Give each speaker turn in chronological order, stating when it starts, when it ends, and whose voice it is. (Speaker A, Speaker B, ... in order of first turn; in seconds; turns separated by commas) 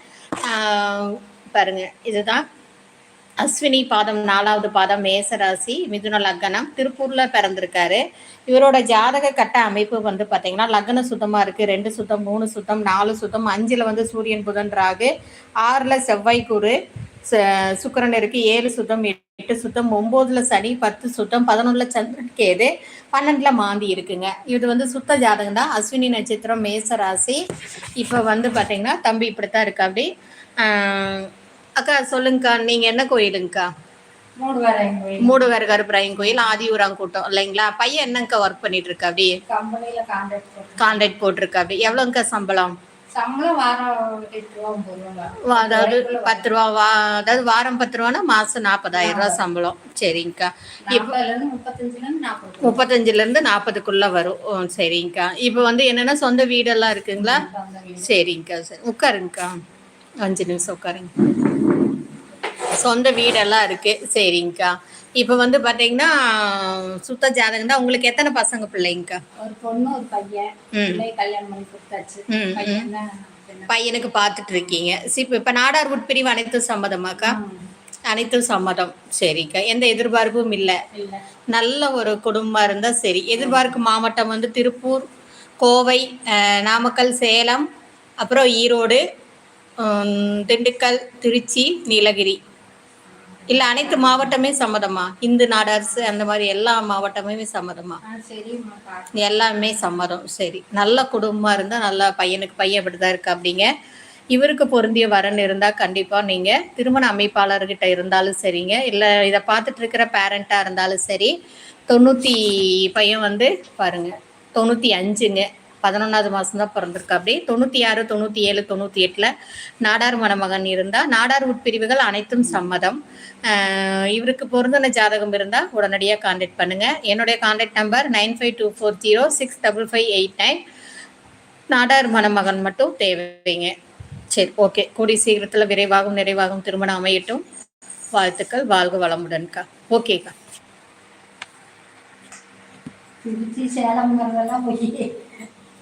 Speaker A: 0.4-2.5, Speaker A: 3.4-15.1, Speaker A: 15.6-16.8, Speaker A: 17.3-27.4, Speaker A: 28.0-33.7, Speaker B: 34.4-35.5, Speaker A: 35.2-39.4, Speaker B: 39.5-41.1, Speaker A: 40.8-42.8, Speaker B: 43.1-46.5, Speaker A: 45.4-51.1, Speaker B: 49.0-49.4, Speaker B: 50.9-52.9, Speaker A: 52.6-57.5, Speaker B: 57.2-58.1, Speaker A: 58.0-59.6, Speaker A: 60.2-61.7, Speaker A: 62.7-69.2, Speaker B: 69.4-74.5, Speaker A: 70.7-71.0, Speaker A: 72.3-72.9, Speaker A: 73.7-77.4, Speaker B: 77.2-77.7, Speaker A: 78.1-80.8, Speaker B: 80.9-81.2, Speaker A: 81.5-85.1, Speaker A: 85.6-87.7, Speaker A: 88.2-89.0, Speaker A: 89.8-92.4, Speaker B: 93.3-94.4, Speaker A: 93.5-98.0, Speaker B: 98.0-99.4, Speaker A: 99.1-103.7, Speaker A: 104.3-111.3, Speaker A: 111.9-119.3, Speaker A: 119.8-130.6, Speaker A: 131.7-133.7, Speaker A: 134.3-137.4, Speaker A: 138.2-140.3, Speaker B: 143.2-145.3